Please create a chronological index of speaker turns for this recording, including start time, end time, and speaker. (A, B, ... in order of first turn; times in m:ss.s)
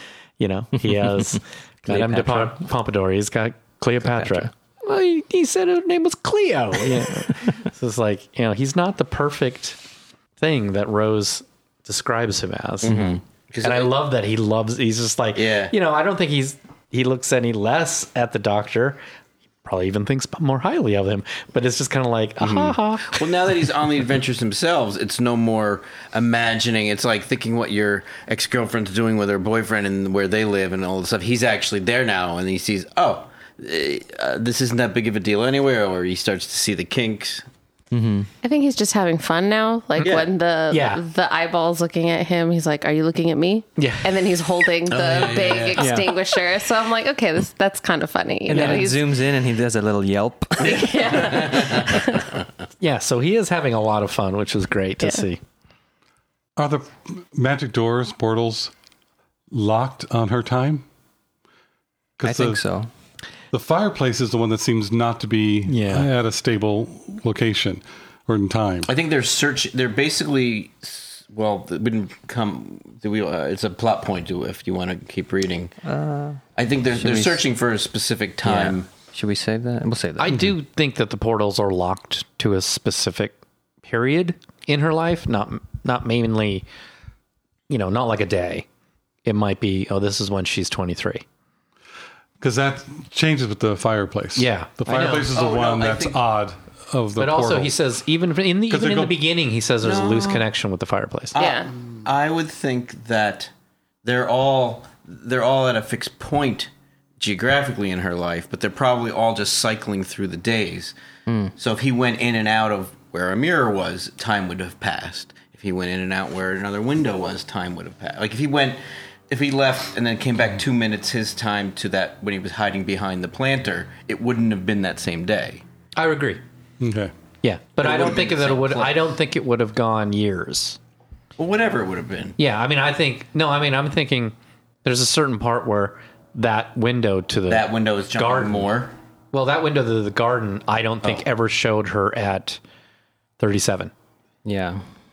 0:00.4-0:09.8 A
0:01.9-0:02.6 B
0:04.2-0:04.5 B
0:10.4-0:19.0 A
0:12.8-0:13.9 C
0:15.3-0:15.7 C
0:19.6-0:23.5 A
0:22.4-0:37.4 C
0:37.9-0:38.3 B
0:38.4-0:49.1 D
0:40.0-0:40.3 C
0:40.7-0:41.0 A
0:43.8-0:44.1 A
0:44.9-0:45.9 C
0:45.8-0:46.1 B
0:48.5-0:51.2 B
0:48.5-0:48.8 A
0:50.6-0:52.3 D
0:50.6-0:52.0 C
0:52.8-0:55.4 A
0:56.6-0:58.7 E
0:59.5-1:00.8 E
1:02.2-1:02.6 E
1:02.2-1:02.9 B
1:03.5-1:08.9 E
1:05.7-1:06.1 A
1:08.8-1:15.7 C
1:15.8-1:16.4 B
1:16.5-1:18.9 C
1:16.9-1:17.4 B
1:18.4-1:20.5 B
1:20.2-1:26.6 A
1:27.7-1:28.6 A
1:29.2-1:31.2 A
1:32.4-1:37.7 E
1:34.4-1:35.4 A
1:35.3-1:36.2 C
1:37.2-1:41.4 A
1:38.7-1:39.2 E
1:39.8-1:40.4 C
1:41.3-1:43.5 C
1:41.3-1:41.7 D
1:44.0-1:50.9 C
1:51.3-1:51.5 B
1:51.6-2:05.6 C
2:06.0-2:06.4 A
2:06.8-2:07.1 E
2:07.4-2:10.8 A
2:07.8-2:09.0 C
2:11.4-2:12.4 C
2:12.4-2:18.7 A
2:17.5-2:18.9 C
2:19.3-2:22.6 A
2:23.4-2:23.9 A
2:24.4-2:24.8 B